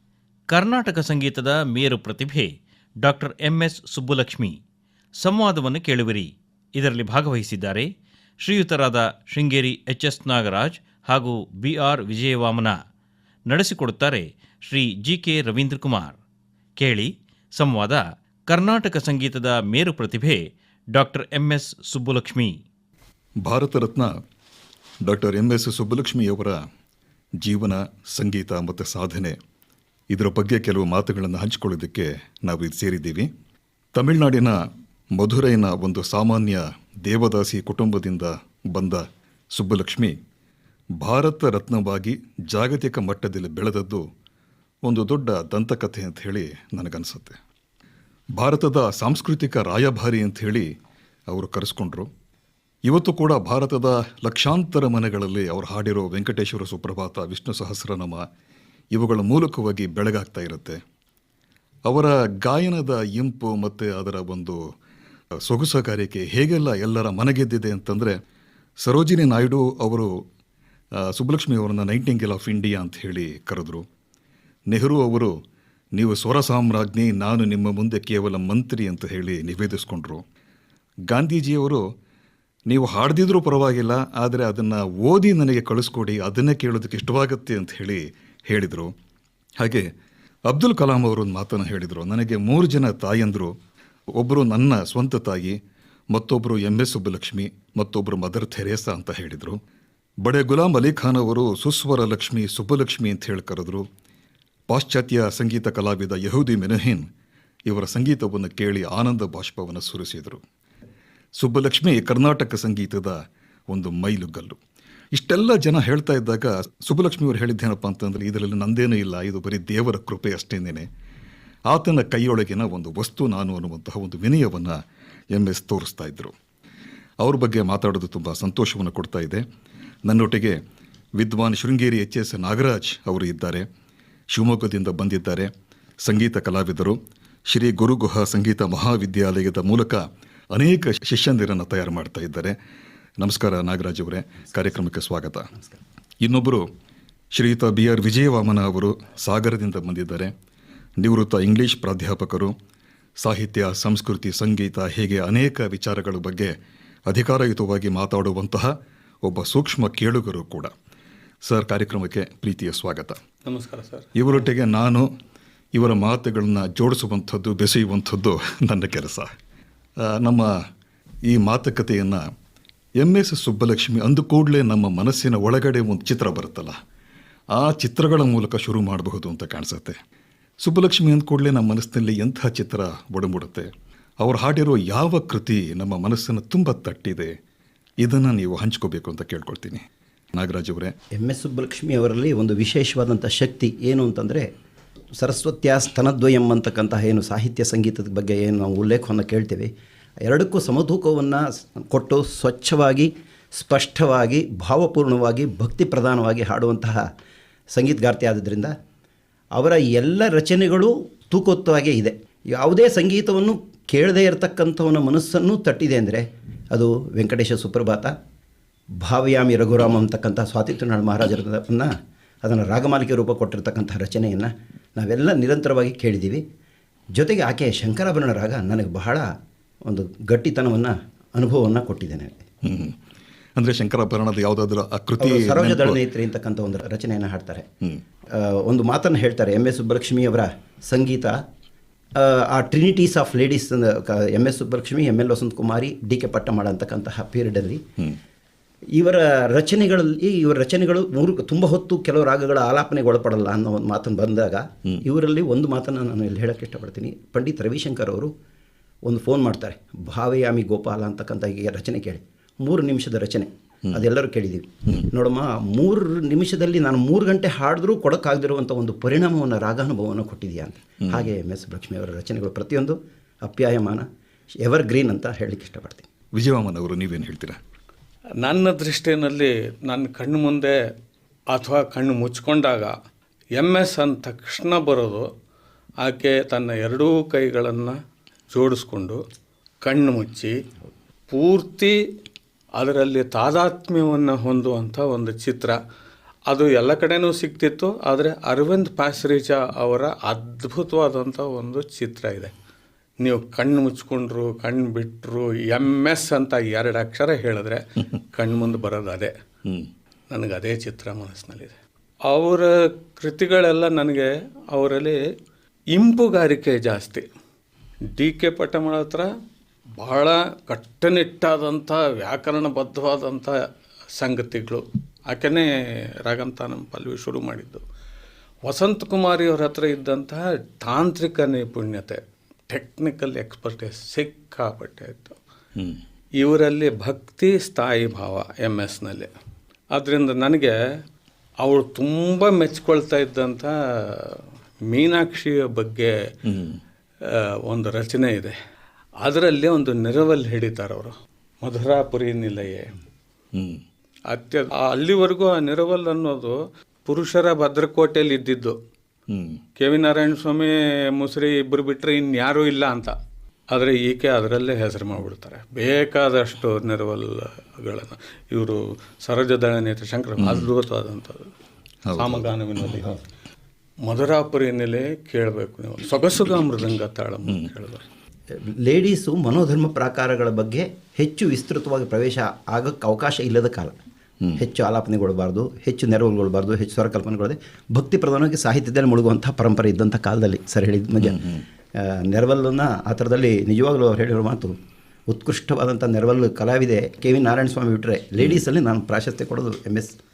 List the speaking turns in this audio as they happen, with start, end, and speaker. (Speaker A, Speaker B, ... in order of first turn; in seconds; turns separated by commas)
Speaker A: 0.5-4.6, Speaker A: 5.2-7.9, Speaker A: 8.4-12.8, Speaker A: 13.5-16.1, Speaker A: 16.8-22.6, Speaker B: 23.4-24.2, Speaker B: 25.0-26.6, Speaker B: 27.4-29.4, Speaker B: 30.1-33.3, Speaker B: 33.9-34.6, Speaker B: 35.1-40.1, Speaker B: 41.0-44.1, Speaker B: 44.8-47.4, Speaker B: 48.4-50.7, Speaker B: 51.3-52.1, Speaker B: 52.8-58.3, Speaker B: 58.9-60.8, Speaker B: 61.9-64.6, Speaker B: 65.4-68.2, Speaker B: 68.8-70.2, Speaker B: 70.9-73.8, Speaker B: 74.7-75.3, Speaker B: 75.9-80.2, Speaker B: 81.1-81.9, Speaker B: 82.7-88.9, Speaker B: 89.6-89.9, Speaker B: 90.5-93.5, Speaker B: 94.1-95.6, Speaker B: 96.1-99.6, Speaker B: 100.2-103.9, Speaker B: 104.7-107.1, Speaker B: 107.7-110.4, Speaker B: 111.4-114.6, Speaker B: 115.1-120.9, Speaker B: 121.7-124.8, Speaker B: 125.3-126.3, Speaker B: 127.2-129.4, Speaker B: 130.1-130.6, Speaker B: 131.2-133.7, Speaker B: 134.3-135.5, Speaker B: 136.0-142.6, Speaker B: 143.2-145.5, Speaker B: 146.2-146.7, Speaker B: 147.3-150.3, Speaker B: 151.0-152.6, Speaker B: 153.2-156.6, Speaker B: 157.1-160.7, Speaker B: 161.4-163.2, Speaker C: 163.4-164.1, Speaker B: 164.2-165.1, Speaker B: 165.7-169.3, Speaker B: 170.0-170.6, Speaker B: 171.2-172.2, Speaker B: 173.0-176.8, Speaker B: 177.5-180.0, Speaker B: 180.6-187.4, Speaker B: 188.0-190.9, Speaker D: 191.1-194.5, Speaker D: 195.2-199.7, Speaker D: 200.2-207.1, Speaker D: 207.7-208.7, Speaker D: 209.5-218.1, Speaker D: 219.0-226.4, Speaker D: 227.1-229.3, Speaker D: 229.8-232.4, Speaker B: 232.6-233.0, Speaker B: 233.6-236.0, Speaker D: 235.2-237.7, Speaker D: 238.3-241.4, Speaker D: 242.1-247.8, Speaker D: 248.9-258.3, Speaker D: 259.0-274.1, Speaker D: 274.6-276.1, Speaker B: 276.3-277.6, Speaker C: 278.4-280.8, Speaker C: 281.5-283.0, Speaker C: 283.6-285.3, Speaker C: 286.0-288.0, Speaker C: 288.5-289.2, Speaker C: 289.8-290.6, Speaker C: 291.3-292.0, Speaker C: 292.8-295.8, Speaker C: 296.5-302.5, Speaker C: 303.2-309.3, Speaker B: 309.6-309.9, Speaker C: 310.3-315.3, Speaker C: 315.9-317.3, Speaker C: 318.1-319.3, Speaker C: 320.0-323.6, Speaker C: 324.1-327.8, Speaker C: 328.6-335.4, Speaker C: 336.4-339.3, Speaker C: 339.9-340.8, Speaker C: 341.6-346.3, Speaker B: 346.4-346.8, Speaker C: 347.2-348.6, Speaker C: 349.2-352.9, Speaker B: 353.5-353.8, Speaker C: 354.3-358.8, Speaker B: 359.3-359.6, Speaker C: 359.8-363.1, Speaker C: 363.7-371.5, Speaker B: 370.4-370.7, Speaker B: 372.1-373.0, Speaker C: 372.1-373.2, Speaker C: 374.0-378.0, Speaker D: 378.5-383.9, Speaker D: 384.6-394.8, Speaker B: 391.2-391.6, Speaker D: 395.3-400.2